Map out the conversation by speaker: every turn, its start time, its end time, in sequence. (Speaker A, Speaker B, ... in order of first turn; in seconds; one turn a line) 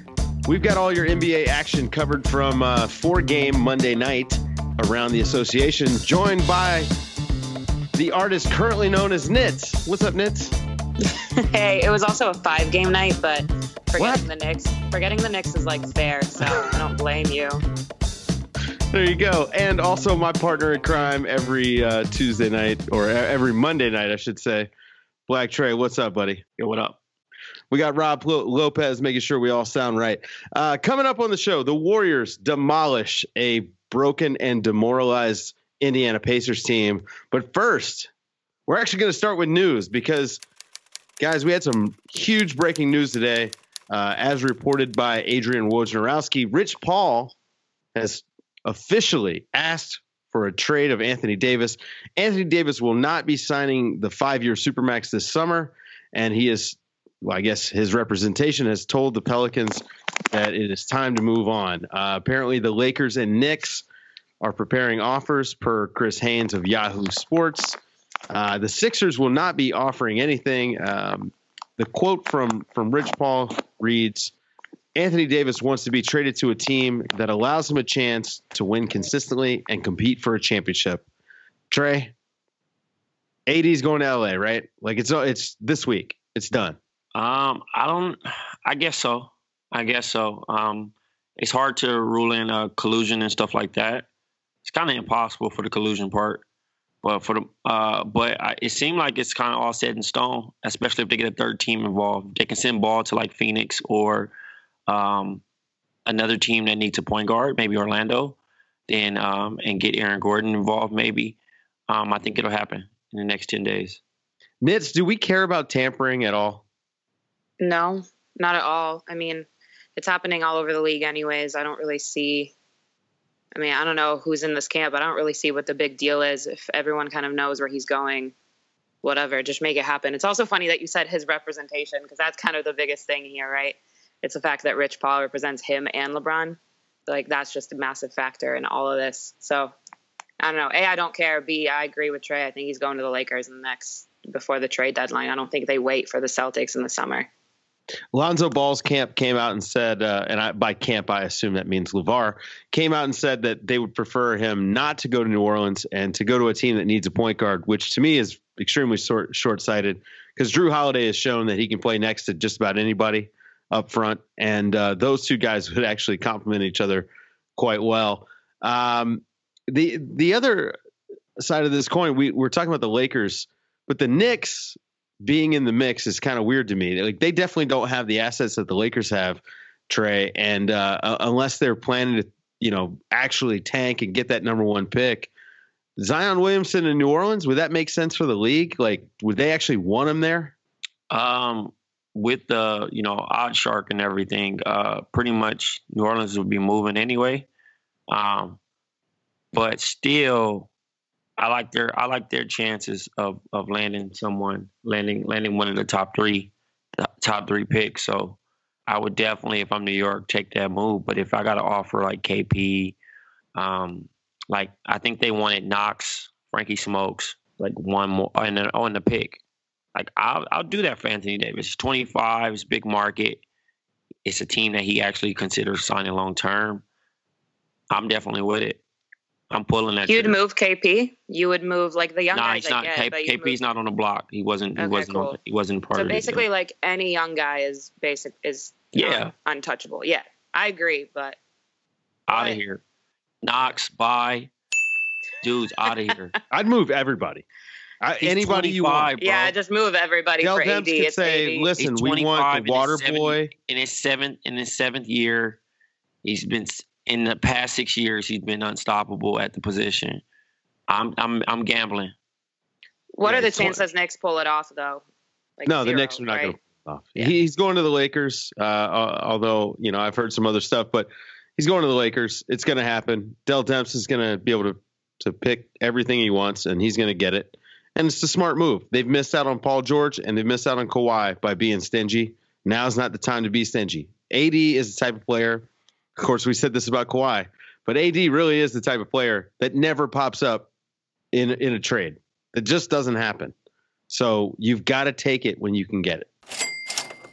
Speaker A: 0.5-6.9
Speaker A: 8.0-10.6
Speaker B: 11.5-17.6
Speaker A: 14.0-14.3
Speaker A: 18.9-24.7
Speaker A: 25.3-26.4
Speaker C: 26.6-27.0
Speaker A: 27.7-38.1
Speaker A: 38.7-40.4
Speaker A: 41.2-47.4
Speaker A: 48.0-63.9
Speaker A: 64.4-67.8
Speaker A: 68.3-74.3
Speaker A: 75.0-81.0
Speaker A: 81.7-82.1
Speaker A: 83.5-86.8
Speaker C: 87.2-94.1
Speaker C: 94.7-96.5
Speaker C: 97.0-104.3
Speaker C: 104.9-105.4
Speaker C: 106.1-108.4
Speaker C: 108.9-111.4
Speaker C: 111.9-114.0
Speaker A: 114.6-116.6
Speaker B: 117.6-122.5
Speaker B: 123.5-128.3
Speaker B: 129.0-139.8
Speaker B: 140.4-147.3
Speaker A: 148.1-170.8
Speaker A: 171.4-185.3
Speaker A: 186.0-190.6
Speaker C: 191.1-197.5
Speaker C: 198.1-198.6
Speaker C: 199.5-200.7
Speaker C: 201.4-213.0
Speaker C: 213.6-219.4
Speaker C: 219.9-223.4
Speaker C: 224.2-226.8
Speaker C: 227.9-228.8
Speaker C: 229.5-230.4
Speaker B: 230.1-233.6
Speaker C: 232.3-236.4
Speaker B: 234.8-235.4
Speaker B: 235.9-241.4
Speaker C: 238.9-239.3
Speaker C: 242.3-242.8
Speaker B: 242.3-242.6
Speaker C: 243.4-244.5
Speaker C: 245.4-246.4
Speaker A: 246.5-247.4
Speaker A: 248.0-249.1
Speaker C: 248.2-249.5
Speaker B: 249.2-251.7
Speaker A: 250.4-253.5
Speaker C: 251.8-255.6
Speaker C: 256.2-260.2
Speaker C: 260.9-262.1
Speaker B: 263.1-265.0
Speaker A: 263.2-263.8
Speaker B: 265.6-266.6
Speaker A: 265.7-285.7
Speaker A: 286.2-290.7
Speaker A: 291.3-293.5
Speaker A: 294.1-296.3